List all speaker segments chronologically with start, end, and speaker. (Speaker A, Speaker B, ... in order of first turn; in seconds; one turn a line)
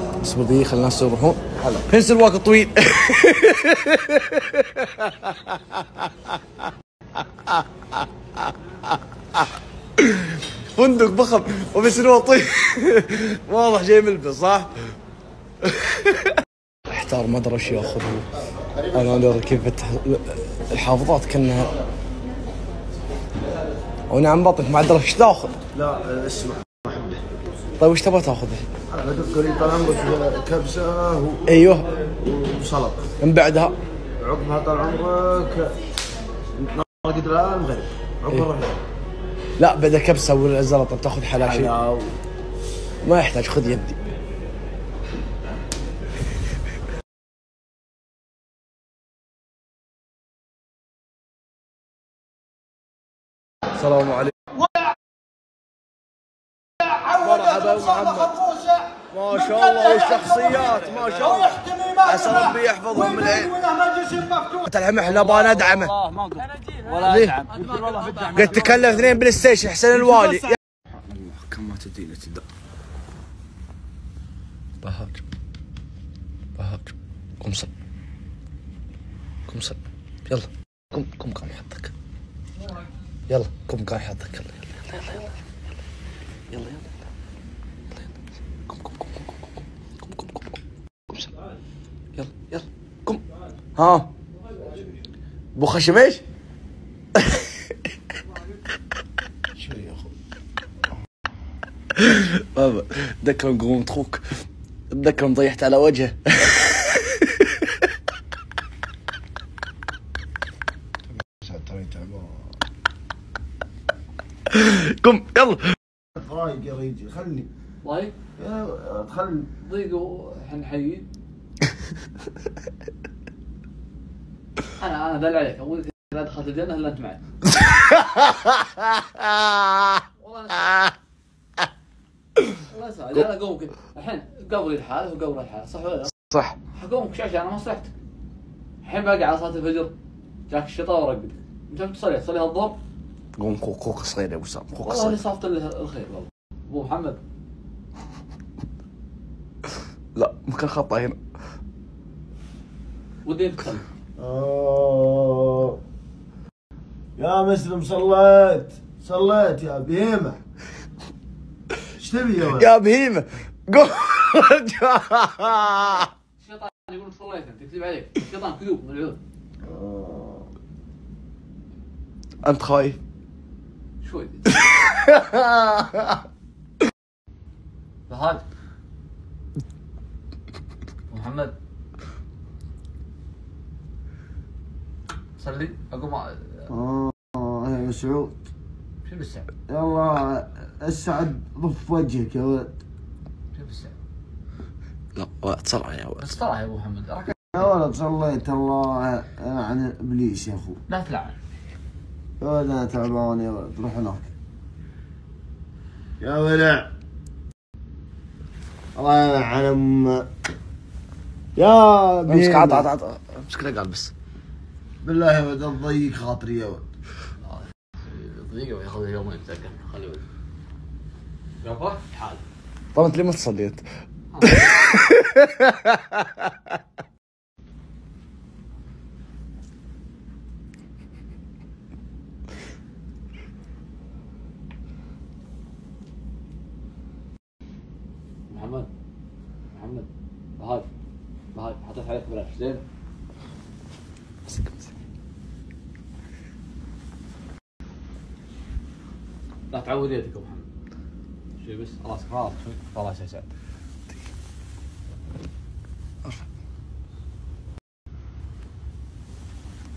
Speaker A: 0.2-5.6
Speaker B: 1.6-1.9
Speaker A: 10.0-14.7
Speaker A: 15.7-16.3
Speaker A: 16.9-18.3
Speaker A: 18.9-21.7
Speaker A: 24.1-25.6
Speaker B: 25.7-27.2
Speaker A: 27.8-28.7
Speaker B: 28.9-31.4
Speaker A: 31.5-31.9
Speaker B: 32.2-33.0
Speaker A: 33.2-33.7
Speaker B: 34.2-35.7
Speaker B: 36.6-38.8
Speaker A: 39.6-41.7
Speaker B: 41.4-42.1
Speaker A: 43.0-44.0
Speaker A: 53.8-54.3
Speaker A: 57.2-58.4
Speaker A: 59.1-62.6
Speaker B: 62.0-63.5
Speaker A: 64.4-65.9
Speaker B: 65.1-69.0
Speaker A: 67.0-67.4
Speaker A: 68.3-70.5
Speaker B: 71.0-72.4
Speaker A: 74.8-75.2
Speaker A: 76.6-77.7
Speaker A: 79.5-79.8
Speaker A: 80.3-81.9
Speaker A: 83.3-85.3
Speaker A: 86.5-86.9
Speaker A: 88.7-89.0
Speaker A: 90.0-90.4
Speaker A: 92.2-93.2
Speaker A: 93.8-94.1
Speaker A: 95.5-96.2
Speaker A: 99.5-100.0
Speaker A: 102.0-104.2
Speaker A: 104.9-107.5
Speaker B: 111.3-112.4
Speaker A: 114.5-115.6
Speaker B: 116.1-117.5
Speaker C: 117.8-118.1
Speaker B: 118.4-119.5
Speaker C: 119.6-121.1
Speaker C: 124.8-127.2
Speaker C: 130.2-130.8
Speaker C: 132.7-137.9
Speaker C: 138.8-139.9
Speaker C: 140.5-142.8
Speaker A: 143.4-145.2
Speaker C: 144.7-147.2
Speaker A: 150.2-151.2
Speaker C: 153.2-153.8
Speaker B: 154.2-155.8
Speaker B: 157.2-160.4
Speaker B: 161.9-162.7
Speaker A: 162.6-166.1
Speaker C: 166.4-169.2
Speaker B: 169.6-170.5
Speaker A: 172.4-173.0
Speaker C: 174.0-174.5
Speaker A: 174.5-176.1
Speaker C: 178.1-178.4
Speaker C: 181.1-181.5
Speaker C: 185.4-186.7
Speaker B: 186.7-188.4
Speaker C: 189.0-189.5
Speaker B: 189.7-192.8
Speaker C: 193.5-193.9
Speaker A: 195.2-196.3
Speaker C: 196.2-197.6
Speaker B: 197.5-200.8
Speaker C: 200.9-201.4
Speaker B: 202.4-204.3
Speaker B: 206.2-206.9
Speaker B: 208.9-210.3
Speaker B: 211.6-212.9
Speaker A: 212.3-214.1
Speaker B: 215.0-216.8
Speaker C: 217.4-220.2
Speaker C: 221.6-222.4
Speaker A: 222.9-223.8
Speaker C: 224.3-224.7
Speaker A: 224.4-226.5
Speaker C: 238.5-238.9
Speaker C: 239.7-240.1
Speaker C: 240.6-240.9
Speaker C: 241.5-242.8
Speaker C: 249.7-250.7
Speaker C: 251.6-253.5